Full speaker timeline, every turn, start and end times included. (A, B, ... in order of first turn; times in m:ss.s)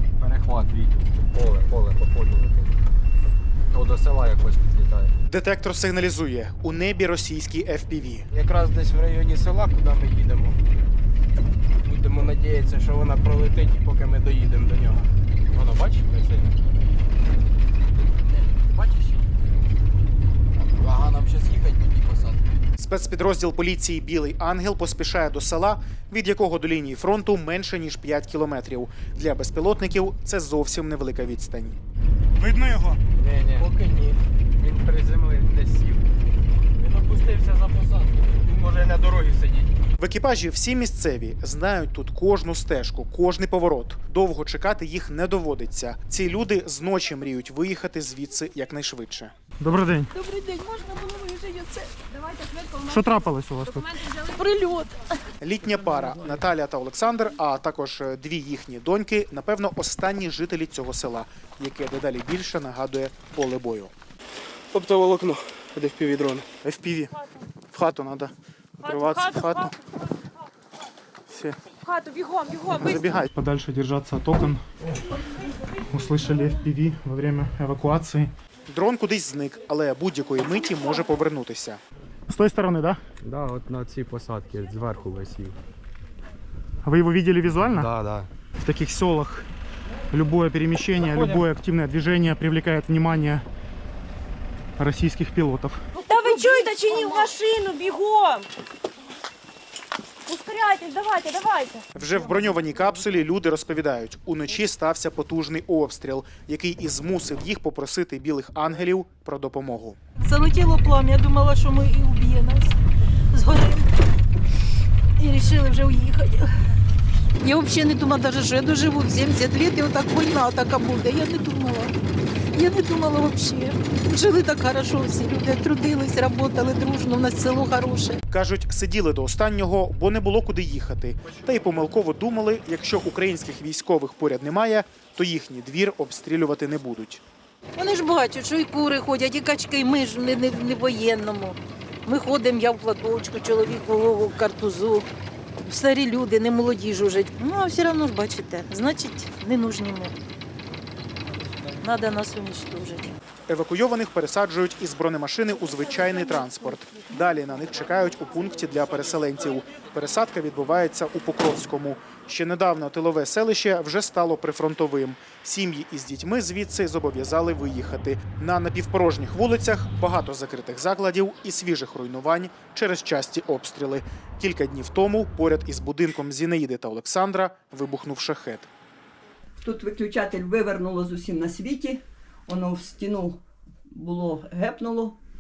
0:00.2-0:02.8 A
0:03.7-0:05.2 A
0:05.3-0:08.2 B
0:08.3-0:10.6 C
0:11.8-0:15.1 C
0:15.6-0:15.9 A
0:21.1-0:21.8 C
0:22.8-0:31.8 B
0:32.4-0:33.0 D
0:33.2-0:33.7 A
0:33.4-0:35.5 C
0:36.8-0:39.7 C
0:40.0-0:49.4 B
0:49.6-0:50.1 D
0:52.6-0:53.1 E
0:52.9-0:53.9 D
0:54.2-0:54.9 F
0:55.4-1:03.9 B
1:04.7-1:06.5 C
1:06.6-1:07.1 D
1:07.7-1:08.3 D
1:08.8-1:09.8 B
1:09.1-1:09.4 E
1:11.3-1:11.6 B
1:11.9-1:13.0 E
1:12.7-1:13.3 B
1:12.8-1:14.6 D
1:15.9-1:18.3 D
1:18.7-1:21.8 B
1:22.3-1:23.0 D
1:23.2-1:25.6 A
1:26.8-1:27.9 D
1:27.5-1:28.3 A
1:28.6-1:29.5 D
1:30.1-1:33.4 D
1:31.0-1:31.4 A
1:34.8-1:35.8 D
1:36.0-1:38.5 E
1:36.2-1:37.3 F
1:40.3-1:41.8 E
1:42.0-1:50.0 B
1:50.2-1:52.8 F
1:53.3-1:53.9 F
1:55.2-1:56.5 F
1:57.4-2:01.9 F
2:02.5-2:08.2 F
2:08.3-2:17.2 B
2:17.8-2:25.1 F
2:25.6-2:30.2 F
2:31.8-2:33.1 F
2:33.5-2:58.7 B
2:59.6-3:05.2 G